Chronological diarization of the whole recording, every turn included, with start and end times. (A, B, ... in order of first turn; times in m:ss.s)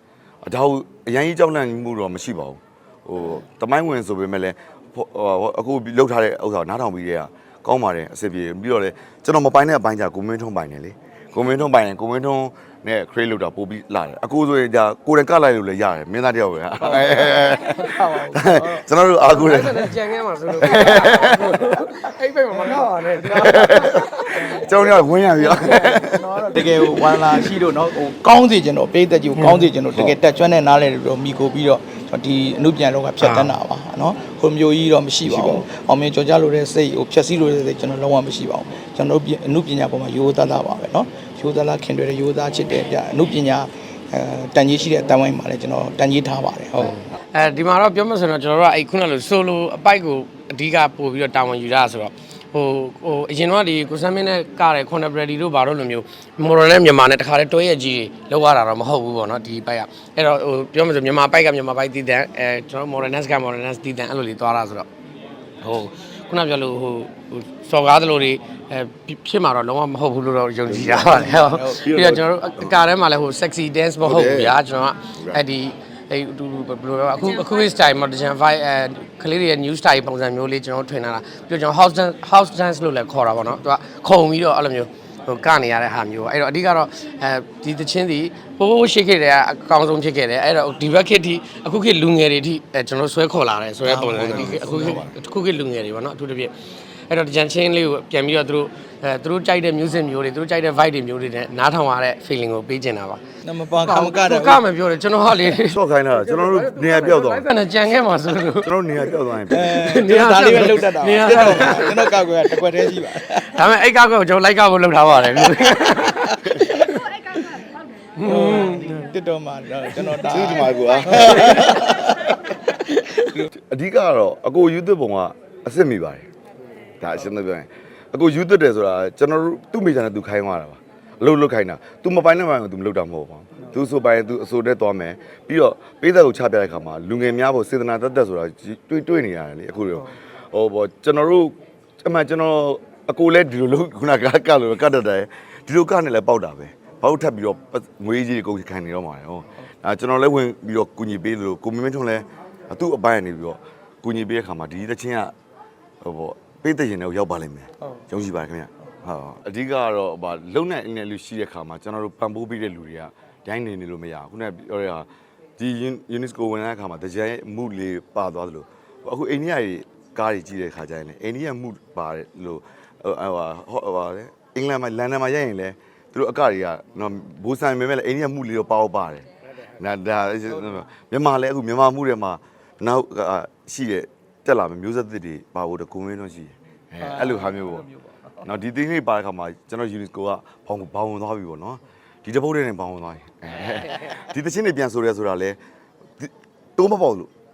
0:00.4-0:19.9 A
0:16.8-0:18.8 B
0:19.3-0:24.7 C
0:20.5-0:21.6 A
0:23.4-0:26.4 A
0:24.3-0:24.7 B
0:25.4-0:27.4 C
0:26.5-0:47.0 B
0:29.4-0:29.7 C
0:33.2-0:33.6 C
0:35.2-0:35.7 A
0:46.9-1:04.8 C
1:05.6-1:36.5 C
1:10.7-1:12.8 A
1:11.0-1:11.9 B
1:14.0-1:14.6 A
1:15.2-1:15.4 A
1:33.8-1:35.0 B
1:34.3-1:35.1 A
1:37.1-1:43.2 C
1:43.4-1:44.6 B
1:43.8-1:48.7 C
1:45.5-1:47.5 A
1:48.6-1:49.7 A
1:49.5-1:53.6 B
1:49.5-1:52.1 C
1:53.3-1:59.1 C
1:58.2-2:02.3 B
2:00.2-2:02.5 A
2:01.2-2:01.7 C
2:02.8-2:03.3 C
2:03.4-2:06.3 A
2:07.0-2:35.3 A
2:36.0-2:59.2 A
2:59.8-3:07.8 A
3:00.5-3:00.8 B
3:07.0-3:08.5 B
3:08.4-3:15.6 A
3:16.2-3:17.3 A